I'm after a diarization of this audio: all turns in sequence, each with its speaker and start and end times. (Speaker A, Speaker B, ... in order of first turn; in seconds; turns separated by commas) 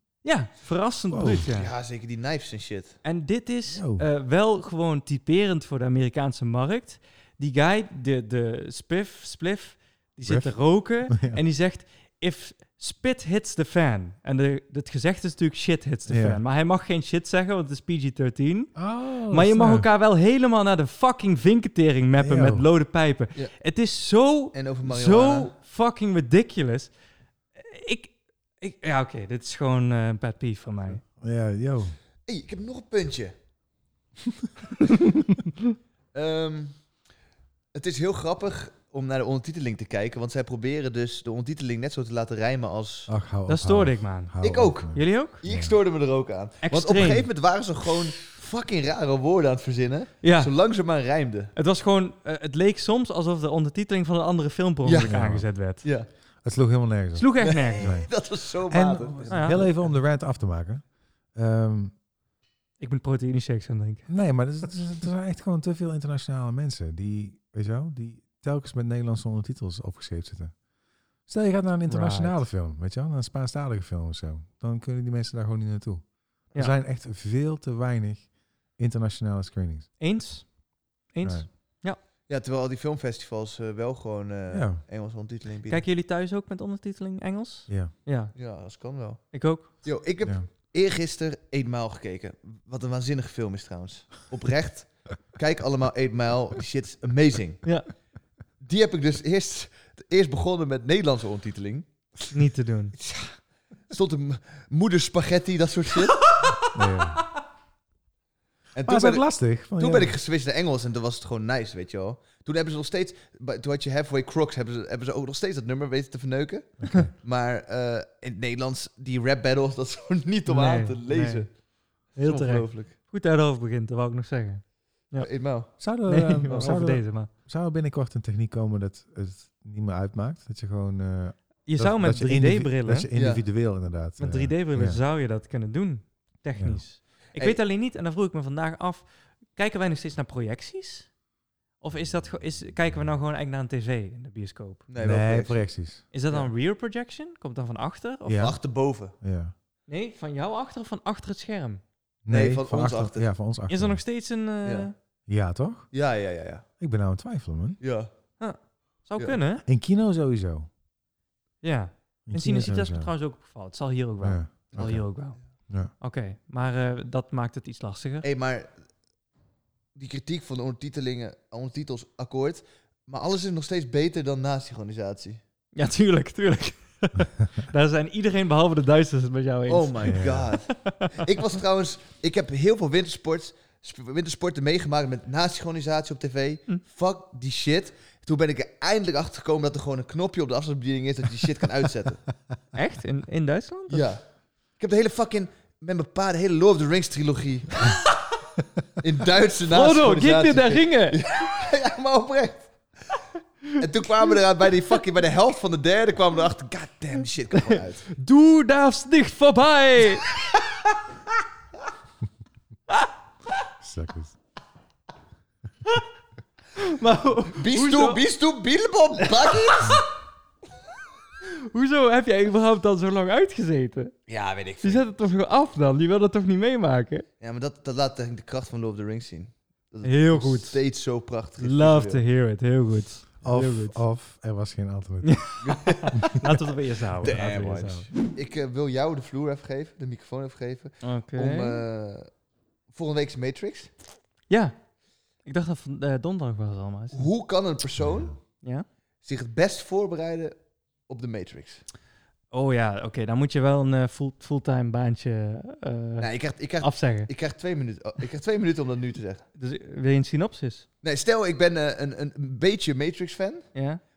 Speaker A: 0.2-1.7, Speaker B: 1.1-1.5, Speaker C: 1.4-3.0, Speaker A: 3.0-26.9, Speaker B: 3.7-4.1, Speaker B: 10.3-11.4, Speaker B: 16.1-16.4, Speaker B: 18.8-19.9, Speaker B: 22.2-22.7, Speaker C: 24.5-25.5, Speaker A: 27.6-31.0, Speaker B: 31.2-32.0, Speaker C: 32.3-33.3, Speaker C: 36.1-36.8, Speaker C: 37.7-43.1, Speaker B: 43.1-45.8, Speaker A: 43.5-44.4, Speaker C: 44.4-51.5, Speaker A: 44.9-45.4, Speaker A: 46.6-47.3, Speaker A: 50.2-50.5, Speaker A: 51.5-55.9, Speaker C: 54.9-55.1, Speaker B: 55.0-55.5, Speaker C: 55.8-56.1, Speaker B: 56.4-58.1, Speaker A: 57.1-57.9, Speaker C: 57.4-59.9, Speaker B: 58.7-61.9, Speaker A: 59.3-59.6, Speaker A: 62.8-64.1, Speaker B: 64.1-70.6, Speaker B: 71.3-79.9, Speaker A: 71.9-72.4, Speaker A: 80.0-80.5, Speaker A: 81.1-82.0, Speaker C: 82.3-85.8, Speaker B: 84.5-84.8, Speaker A: 85.7-88.3, Speaker B: 87.7-87.9, Speaker C: 88.3-97.6, Speaker A: 89.3-89.8, Speaker C: 98.6-102.3, Speaker A: 102.3-103.0, Speaker C: 103.0-103.4, Speaker C: 103.9-106.3, Speaker A: 106.3-106.7, Speaker B: 106.7-107.2, Speaker C: 108.8-121.5, Speaker B: 108.9-110.2, Speaker A: 120.5-121.5, Speaker A: 122.1-125.3, Speaker C: 122.2-122.9, Speaker C: 125.2-125.7, Speaker B: 125.8-135.0, Speaker A: 126.1-127.3, Speaker A: 131.7-133.1, Speaker C: 133.2-133.4, Speaker A: 134.2-141.1, Speaker B: 136.6-136.8, Speaker C: 137.3-137.6, Speaker A: 141.8-144.8, Speaker C: 144.9-146.5, Speaker B: 145.0-146.1, Speaker A: 146.1-148.5, Speaker B: 148.3-148.6, Speaker C: 148.3-149.2, Speaker B: 149.2-149.5, Speaker A: 149.9-151.8, Speaker B: 152.2-154.0, Speaker C: 152.3-153.3, Speaker A: 153.7-154.9, Speaker C: 154.6-154.9, Speaker B: 155.3-155.9, Speaker C: 155.9-156.7, Speaker B: 156.8-157.8, Speaker C: 157.8-158.1, Speaker A: 158.4-159.6, Speaker B: 159.7-160.7, Speaker A: 161.6-165.4, Speaker B: 162.3-163.1, Speaker B: 164.2-165.1, Speaker C: 164.7-165.1, Speaker A: 165.9-168.3, Speaker C: 168.2-168.7, Speaker C: 169.9-175.4, Speaker A: 175.8-180.2, Speaker C: 179.7-192.3, Speaker B: 180.1-180.5, Speaker A: 180.8-181.2, Speaker A: 192.7-194.1, Speaker C: 193.9-194.2, Speaker C: 194.8-198.1, Speaker C: 199.0-202.7, Speaker A: 199.7-201.2, Speaker C: 203.8-208.1, Speaker A: 207.7-210.3, Speaker B: 213.8-214.4, Speaker A: 216.8-218.2, Speaker C: 217.6-220.0, Speaker A: 219.3-220.0, Speaker A: 221.7-224.1, Speaker C: 224.3-225.1, Speaker A: 224.8-227.2, Speaker C: 227.4-232.2, Speaker A: 230.0-230.8, Speaker A: 231.6-234.0, Speaker B: 233.4-235.5, Speaker A: 235.2-238.1, Speaker C: 235.6-236.5, Speaker C: 237.2-242.3, Speaker B: 237.3-238.1, Speaker A: 241.0-241.8, Speaker C: 242.9-243.9, Speaker A: 244.5-244.8, Speaker A: 245.4-247.3, Speaker C: 247.1-248.4, Speaker B: 248.0-248.3, Speaker C: 249.2-251.8, Speaker A: 252.5-257.3, Speaker C: 256.2-259.4, Speaker A: 259.6-260.9, Speaker C: 261.0-263.7, Speaker A: 263.8-264.0